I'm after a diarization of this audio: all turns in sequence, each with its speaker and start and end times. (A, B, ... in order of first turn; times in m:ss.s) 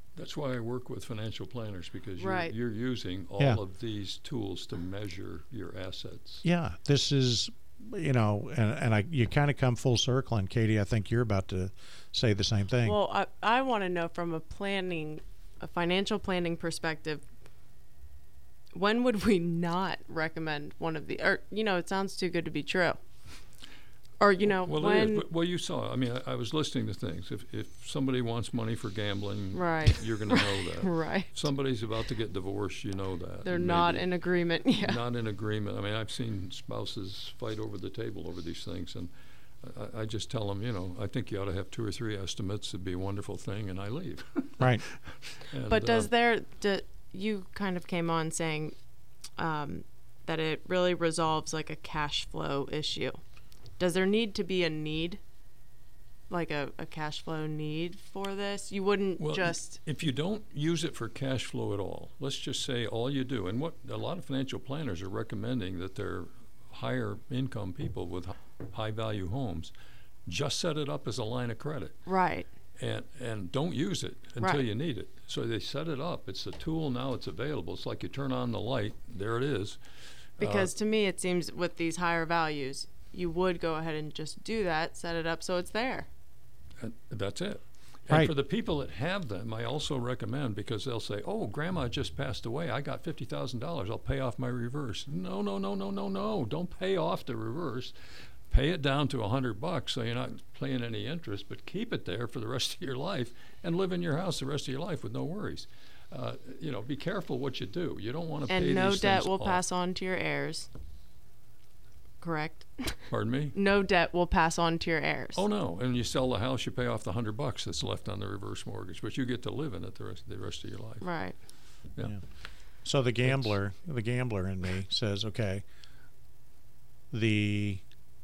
0:00.2-0:06.4 A
0:02.2-0:02.5 B
0:06.4-0:13.0 C
0:12.8-0:17.2 B
0:18.7-0:23.0 B
0:24.2-0:25.2 B
0:24.4-0:34.1 A
0:29.5-0:31.4 B
0:33.4-0:35.0 B
0:34.8-0:39.1 A
0:39.6-0:46.1 A
0:45.7-0:48.8 B
0:49.4-0:53.2 B
0:53.8-0:55.2 B
0:56.3-0:59.8 B
0:59.2-1:09.7 A
1:10.3-1:12.0 A
1:12.1-1:12.5 B
1:12.8-1:19.8 A
1:20.4-1:20.7 A
1:20.4-1:26.1 B
1:26.8-1:49.6 A
1:48.5-1:50.7 B
1:52.2-1:55.4 B
1:53.1-1:53.6 A
1:55.4-2:01.0 A
2:01.0-2:01.4 B
2:02.8-2:05.6 C
2:03.2-2:03.5 A
2:07.1-2:07.8 C